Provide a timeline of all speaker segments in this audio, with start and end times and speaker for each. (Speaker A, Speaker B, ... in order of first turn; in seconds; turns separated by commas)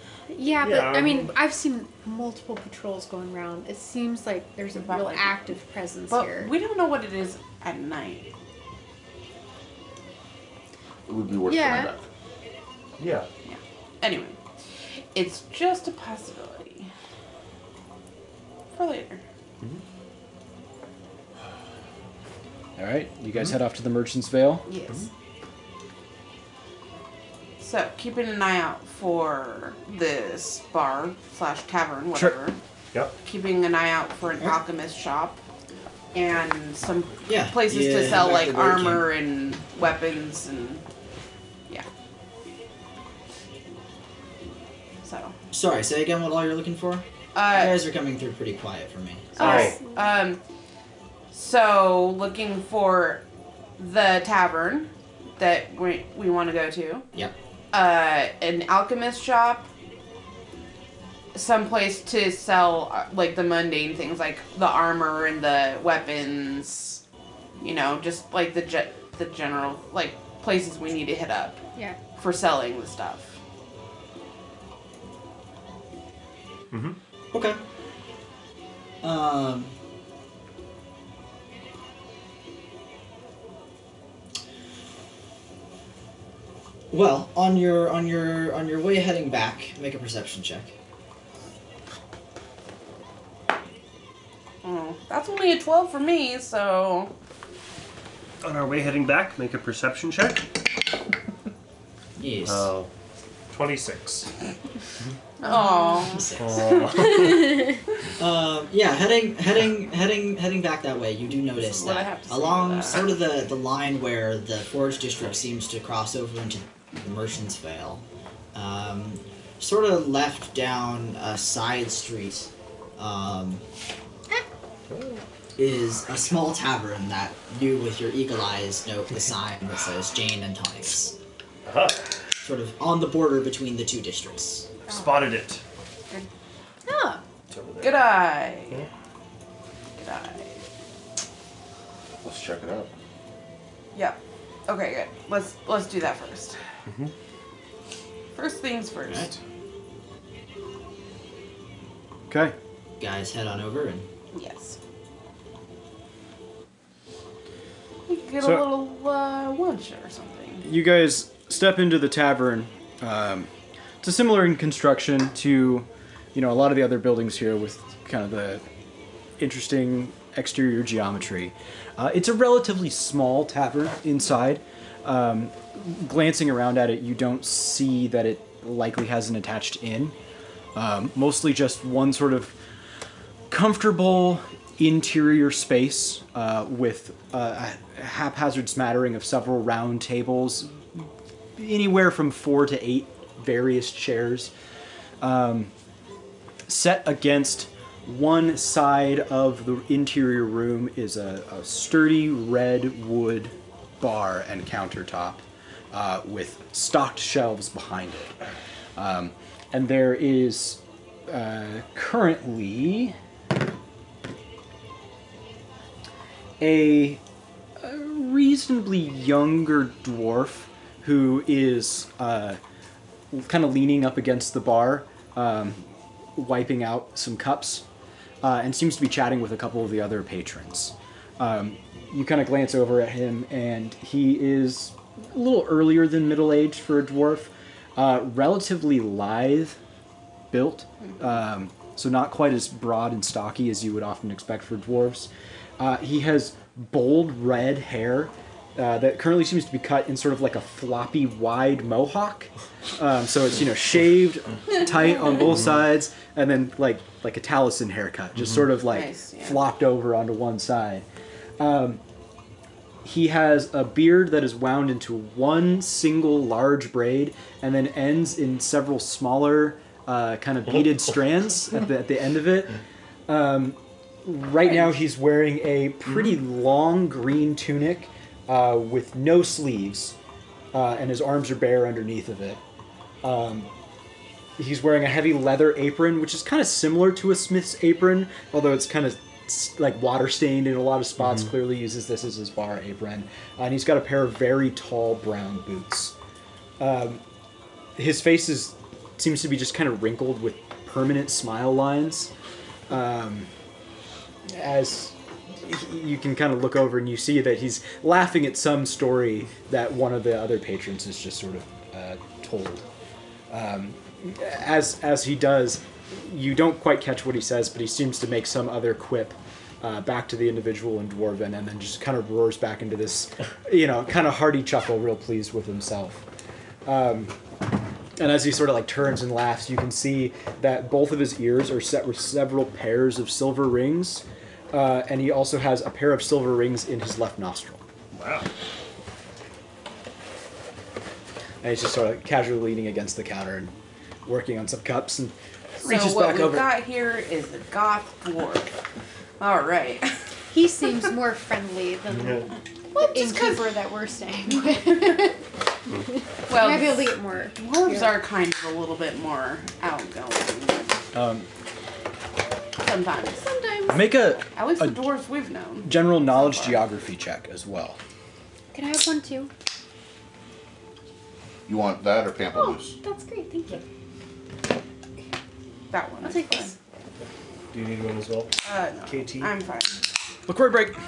Speaker A: 0.3-6.5, Speaker B: 0.6-1.4, Speaker C: 4.7-5.3, Speaker C: 6.1-8.3, Speaker D: 11.1-12.1, Speaker A: 11.4-11.9, Speaker B: 13.0-13.3, Speaker C: 13.4-14.4, Speaker C: 15.1-16.9, Speaker C: 18.7-19.2, Speaker E: 22.8-24.6, Speaker C: 24.7-25.1, Speaker C: 27.6-32.6, Speaker C: 33.2-35.4, Speaker C: 36.1-40.9, Speaker F: 37.3-39.1, Speaker C: 45.0-45.3, Speaker F: 45.5-49.6, Speaker C: 47.4-47.8, Speaker C: 49.4-50.4, Speaker B: 49.4-49.8, Speaker A: 49.4-50.1, Speaker C: 51.3-53.2, Speaker C: 53.8-57.1, Speaker C: 57.7-59.7, Speaker C: 61.3-67.0, Speaker C: 67.6-71.6, Speaker C: 72.2-73.4, Speaker B: 76.7-77.0, Speaker F: 77.3-77.6, Speaker F: 79.0-79.7, Speaker F: 86.9-90.7, Speaker C: 94.6-97.1, Speaker B: 98.4-100.5, Speaker F: 102.2-102.7, Speaker B: 102.4-102.9, Speaker B: 103.5-104.3, Speaker C: 105.4-107.5, Speaker A: 105.4-106.2, Speaker F: 106.1-107.4, Speaker B: 106.3-107.7, Speaker F: 108.2-123.6, Speaker C: 111.5-113.2, Speaker B: 124.9-125.2, Speaker F: 125.6-131.2, Speaker B: 131.6-132.2, Speaker F: 132.4-134.8, Speaker B: 134.8-135.6, Speaker A: 136.8-137.2, Speaker B: 137.5-138.9, Speaker C: 137.8-138.9, Speaker C: 140.0-140.6, Speaker D: 142.2-142.9, Speaker C: 143.9-146.6, Speaker B: 146.8-147.1, Speaker C: 148.3-149.3, Speaker F: 149.1-149.3, Speaker E: 152.3-152.6, Speaker F: 153.0-154.1, Speaker C: 154.3-154.8, Speaker C: 158.1-160.6, Speaker E: 158.4-158.7, Speaker E: 160.6-163.5, Speaker E: 164.0-168.6, Speaker E: 169.4-180.2, Speaker E: 180.7-182.6, Speaker E: 183.5-194.5, Speaker E: 195.2-195.7, Speaker E: 196.7-208.4, Speaker E: 208.9-213.2, Speaker E: 216.6-217.2, Speaker E: 217.8-222.6, Speaker E: 223.3-227.8, Speaker E: 228.4-239.8, Speaker E: 240.5-261.1, Speaker C: 258.9-259.6, Speaker E: 261.6-262.0, Speaker E: 263.0-280.1, Speaker E: 280.7-282.6, Speaker E: 283.2-283.7, Speaker E: 284.6-296.1, Speaker E: 296.8-297.2, Speaker E: 297.9-302.3, Speaker E: 302.9-303.5, Speaker E: 304.4-312.9, Speaker E: 313.5-326.3, Speaker E: 326.9-327.4, Speaker E: 328.2-337.8, Speaker B: 338.1-338.5, Speaker E: 341.6-343.7, Speaker E: 344.2-346.7, Speaker C: 345.8-348.7, Speaker C: 349.4-350.1, Speaker A: 350.5-355.4, Speaker B: 352.2-352.5, Speaker C: 352.9-353.7, Speaker C: 354.7-355.3, Speaker A: 356.0-358.2, Speaker C: 356.5-360.9, Speaker E: 361.1-361.5, Speaker C: 362.8-363.5, Speaker A: 363.4-364.1, Speaker E: 363.9-365.0, Speaker C: 364.6-366.9, Speaker E: 365.8-368.0, Speaker A: 368.7-369.5, Speaker D: 371.7-373.0, Speaker A: 372.5-373.8, Speaker C: 375.9-376.7, Speaker A: 376.2-376.8, Speaker B: 377.7-378.6, Speaker C: 378.6-380.0, Speaker B: 379.1-379.5, Speaker E: 380.5-381.0